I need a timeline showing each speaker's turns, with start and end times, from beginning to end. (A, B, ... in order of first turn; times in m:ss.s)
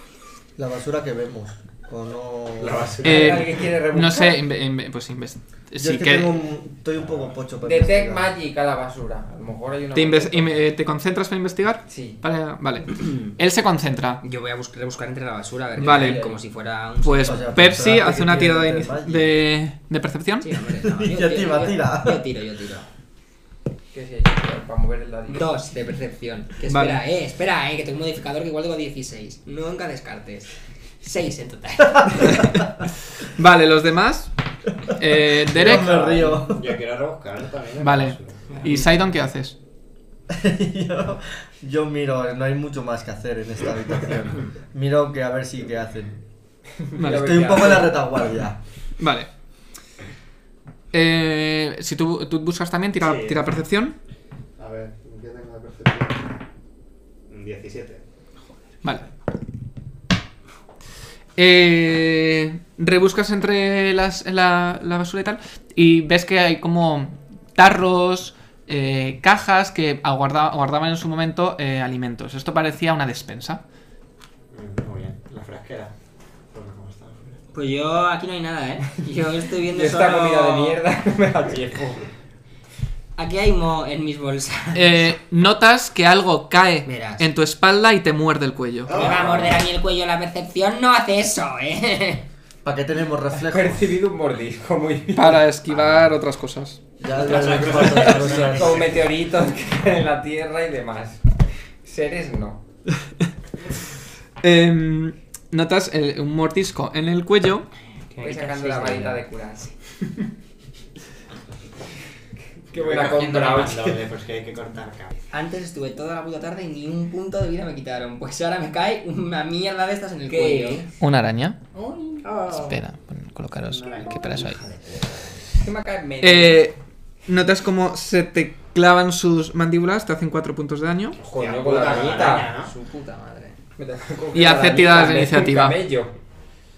0:00.6-0:03.0 A
0:02.6-0:03.6 B
0:03.0-0:06.4 C
0:03.0-0:04.4 D
0:05.8-0:08.3 A
0:07.0-0:07.4 B
0:07.6-0:10.6 D
0:09.9-0:14.2 C
0:11.9-0:12.2 D
0:14.2-0:17.6 E
0:15.8-0:16.4 D
0:15.8-0:16.3 C
0:17.0-0:20.6 C
0:17.2-0:19.3 A
0:20.4-0:22.9 E
0:20.8-0:22.3 A
0:23.9-0:25.6 D
0:25.3-0:32.6 E
0:26.7-0:27.0 C
0:32.3-0:32.7 C
0:33.2-0:34.3 C
0:34.9-0:36.4 C
0:35.3-0:36.8 A
0:35.8-0:38.9 B
0:37.8-0:39.6 C
0:40.3-0:46.2 A
0:46.9-0:48.0 D
0:47.0-0:47.7 C
0:47.1-0:48.6 A
0:49.0-0:49.3 C
0:50.9-0:54.0 C
0:53.0-0:53.6 B
0:54.6-0:56.4 B
0:57.3-0:58.0 B
1:01.4-1:13.6 C
1:14.5-1:15.9 B
1:16.5-1:17.4 B
1:17.5-1:20.8 E
1:19.6-1:22.1 D
1:23.2-1:25.1 E
1:24.7-1:28.9 C
1:26.9-1:27.3 E
1:28.9-1:29.7 B
1:28.9-1:32.3 E
1:32.6-1:34.0 A
1:33.3-1:35.4 D
1:35.2-1:36.8 C
1:35.7-1:36.1 B
1:37.0-1:38.9 A
1:37.2-1:39.0 B
1:37.5-1:41.2 D
1:41.8-1:42.6 D
1:44.4-1:47.7 C
1:48.1-1:49.2 E
1:48.2-1:49.7 D
1:52.7-1:54.0 D
1:52.7-1:55.2 B
1:55.3-2:00.9 E
2:00.3-2:00.9 D
2:01.0-2:01.6 C
2:01.7-2:02.3 D
2:02.2-2:02.8 B
2:02.5-2:04.6 C
2:03.6-2:04.6 B
2:04.1-2:05.6 E
2:05.6-2:06.7 D
2:06.2-2:11.2 C
2:11.2-2:12.7 B
2:11.2-2:12.6 D
2:12.4-2:13.6 E
2:13.8-2:16.1 D
2:14.3-2:15.8 C